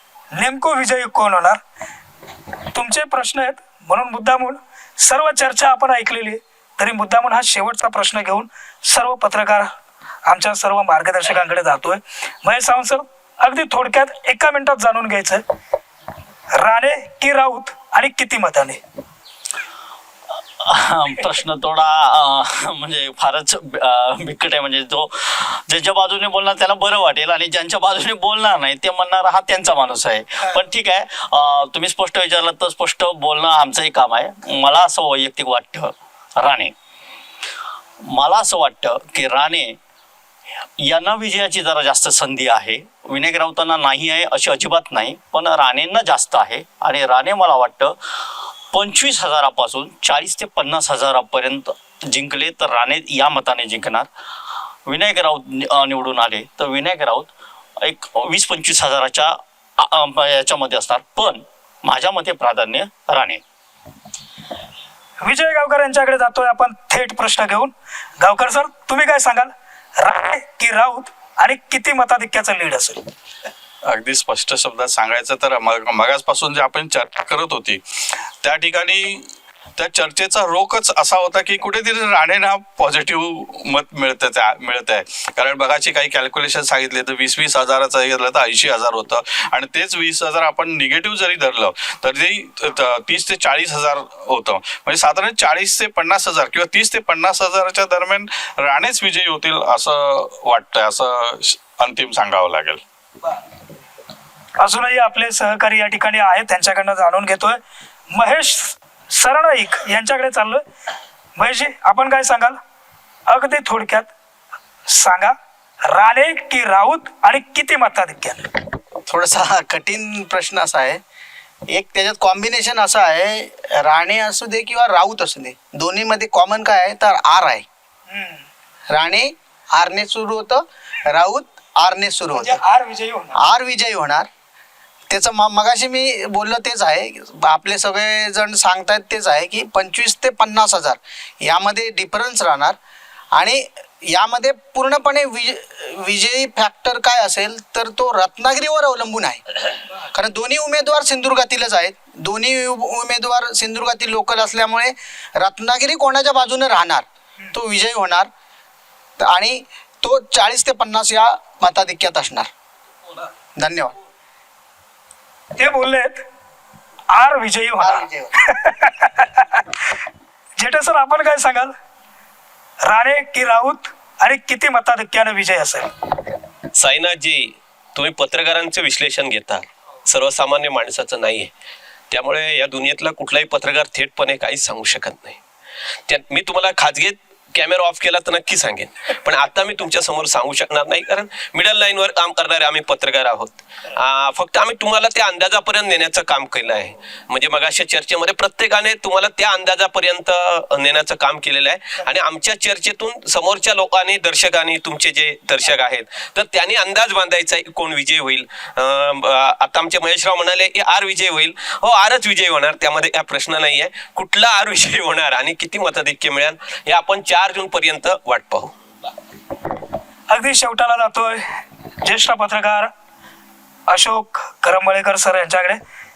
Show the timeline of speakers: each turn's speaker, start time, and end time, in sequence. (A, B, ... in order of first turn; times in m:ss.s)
0:00.3-0:01.6 A
0:02.7-0:09.7 A
0:10.2-0:15.4 A
0:16.6-0:18.8 A
0:20.6-0:36.7 B
0:38.0-0:39.8 B
0:40.8-0:48.0 B
0:48.7-0:54.1 B
0:54.8-0:57.3 B
0:57.8-1:03.4 B
1:05.2-1:13.0 A
1:13.8-1:17.8 C
1:18.4-1:19.2 C
1:19.8-1:42.8 C
1:44.6-1:47.6 A
1:48.1-1:50.6 A
1:51.4-1:52.6 A
1:53.3-1:54.1 A
1:54.9-1:55.3 A
1:55.9-1:58.5 A
1:59.1-2:01.0 D
2:01.7-2:07.6 D
2:08.1-2:08.4 A
2:08.9-2:12.6 D
2:12.3-2:13.4 A
2:13.4-2:14.3 D
2:15.1-2:22.8 D
2:23.3-2:29.4 D
2:30.0-2:38.3 D
2:39.2-2:42.5 D
2:43.6-2:43.9 D
2:45.6-2:46.2 A
2:47.1-2:49.6 A
2:47.8-2:48.3 D
2:50.6-2:51.7 A
2:52.9-2:55.9 A
2:56.7-3:01.5 E
3:02.1-3:05.4 E
3:06.1-3:38.7 E
3:40.3-3:41.4 A
3:42.0-3:42.9 A
3:43.9-3:45.8 A